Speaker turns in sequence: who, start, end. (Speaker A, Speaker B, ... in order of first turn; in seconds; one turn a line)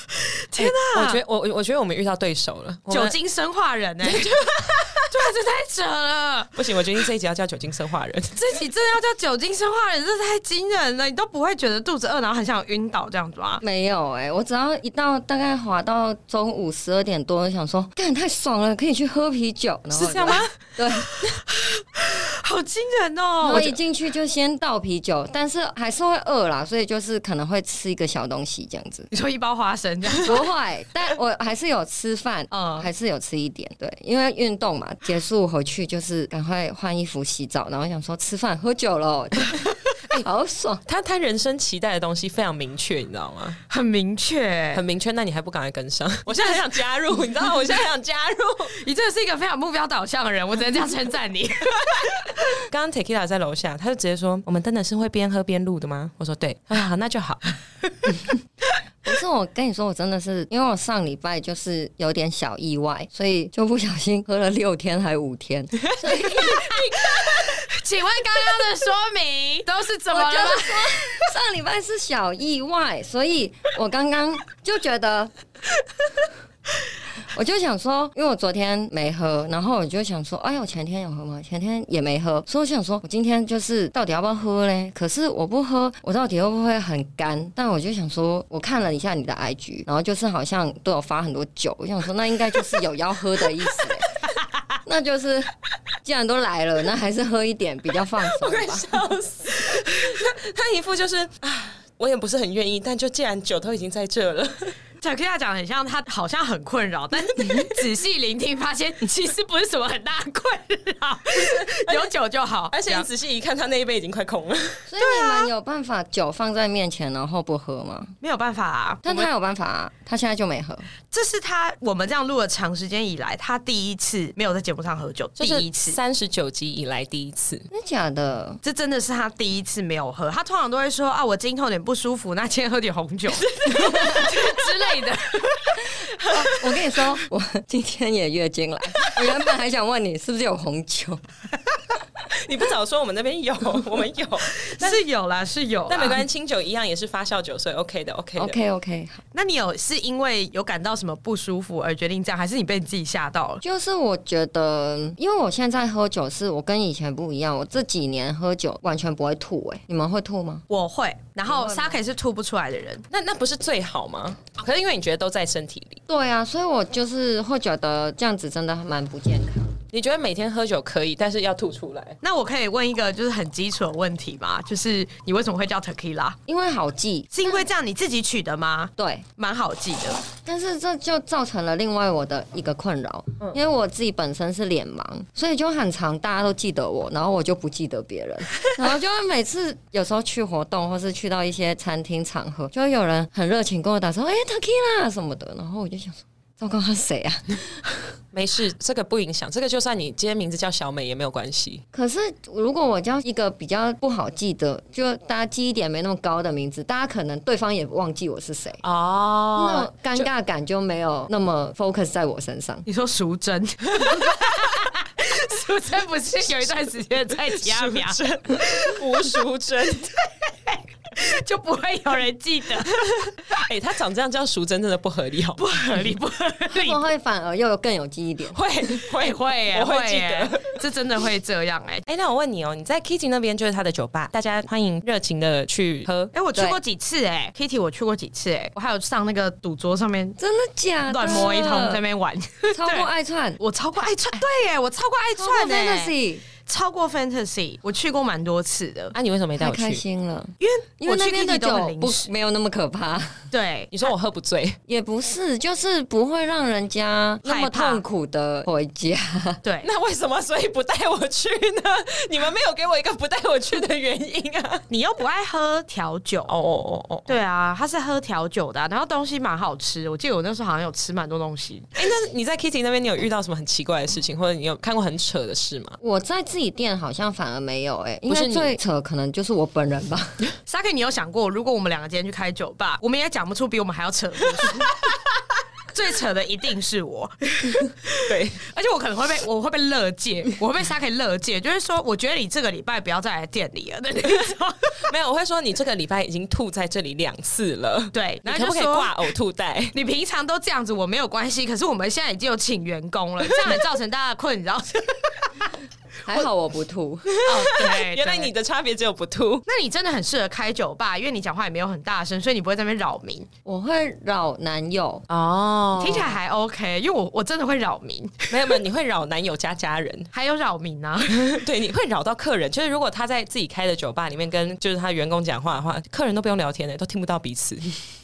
Speaker A: 0.2-1.2
Speaker B: 0.6-3.1
Speaker A: 2.9-4.3
Speaker B: 4.0-4.9
Speaker A: 5.1-6.5
Speaker B: 6.5-8.4
Speaker A: 8.4-13.6
Speaker C: 13.6-21.1
Speaker B: 19.9-20.5
Speaker A: 20.2-23.7
Speaker C: 23.4-29.1
Speaker A: 29.1-30.4
Speaker C: 30.2-39.6
Speaker A: 32.5-32.9
Speaker C: 40.2-40.8
Speaker B: 40.9-43.6
Speaker A: 43.7-44.8
Speaker B: 44.7-48.8
Speaker A: 48.8-52.2
Speaker B: 52.5-57.4
Speaker C: 59.0-67.0
Speaker A: 66.1-71.3
Speaker C: 70.1-75.3
Speaker C: 77.3-94.1
Speaker C: 94.8-95.5
Speaker C: 96.0-98.9
Speaker B: 98.3-104.7
Speaker A: 105.0-113.1
Speaker B: 111.3-112.1
Speaker B: 112.7-114.9
Speaker C: 114.9-118.2
Speaker A: 115.0-115.5
Speaker A: 118.2-119.3
Speaker C: 119.0-120.9
Speaker A: 121.1-126.0
Speaker B: 125.4-127.7
Speaker C: 127.7-128.6
Speaker A: 128.6-136.0
Speaker B: 133.7-133.9
Speaker C: 133.7-134.3
Speaker C: 136.3-141.2
Speaker B: 142.3-145.0
Speaker A: 144.6-146.2
Speaker B: 145.9-148.6
Speaker C: 148.4-149.2
Speaker A: 149.3-153.6
Speaker C: 153.6-160.6
Speaker A: 160.7-163.0
Speaker C: 161.5-162.0
Speaker B: 163.1-166.0
Speaker C: 166.1-169.7
Speaker B: 169.9-172.2
Speaker A: 172.2-176.4
Speaker C: 176.5-177.6
Speaker A: 177.3-180.2
Speaker C: 179.0-179.3
Speaker C: 180.4-197.8
Speaker B: 198.3-201.8
Speaker C: 201.9-208.8
Speaker B: 208.8-210.3
Speaker C: 209.6-212.8
Speaker A: 212.9-219.0
Speaker B: 217.5-220.2
Speaker A: 220.7-222.9
Speaker B: 222.9-225.6
Speaker A: 225.6-227.0
Speaker C: 226.7-228.6
Speaker B: 228.5-230.8
Speaker A: 228.9-232.0
Speaker B: 232.1-236.3
Speaker A: 236.3-240.4
Speaker C: 236.5-236.8
Speaker C: 240.4-242.0
Speaker A: 241.1-249.2
Speaker C: 242.7-243.6
Speaker C: 245.4-246.4
Speaker B: 249.1-250.0
Speaker C: 249.6-253.5
Speaker A: 250.6-252.3
Speaker A: 253.5-253.9
Speaker B: 253.9-254.8
Speaker C: 254.9-259.6
Speaker A: 257.4-258.0
Speaker B: 259.8-264.8
Speaker A: 264.9-266.5
Speaker B: 266.5-267.4
Speaker A: 267.3-272.0
Speaker B: 272.0-276.0
Speaker C: 276.0-280.4
Speaker B: 278.3-278.8
Speaker A: 280.7-285.2
Speaker A: 285.9-295.1
Speaker B: 288.2-288.6
Speaker B: 295.0-299.9
Speaker A: 298.1-299.2
Speaker A: 299.9-305.7
Speaker C: 306.3-307.2
Speaker B: 307.3-309.6
Speaker A: 307.4-308.5
Speaker A: 309.7-313.5
Speaker C: 313.6-315.2
Speaker B: 315.3-316.4
Speaker A: 316.0-318.5
Speaker B: 318.5-320.3
Speaker A: 320.3-321.6
Speaker B: 321.5-328.0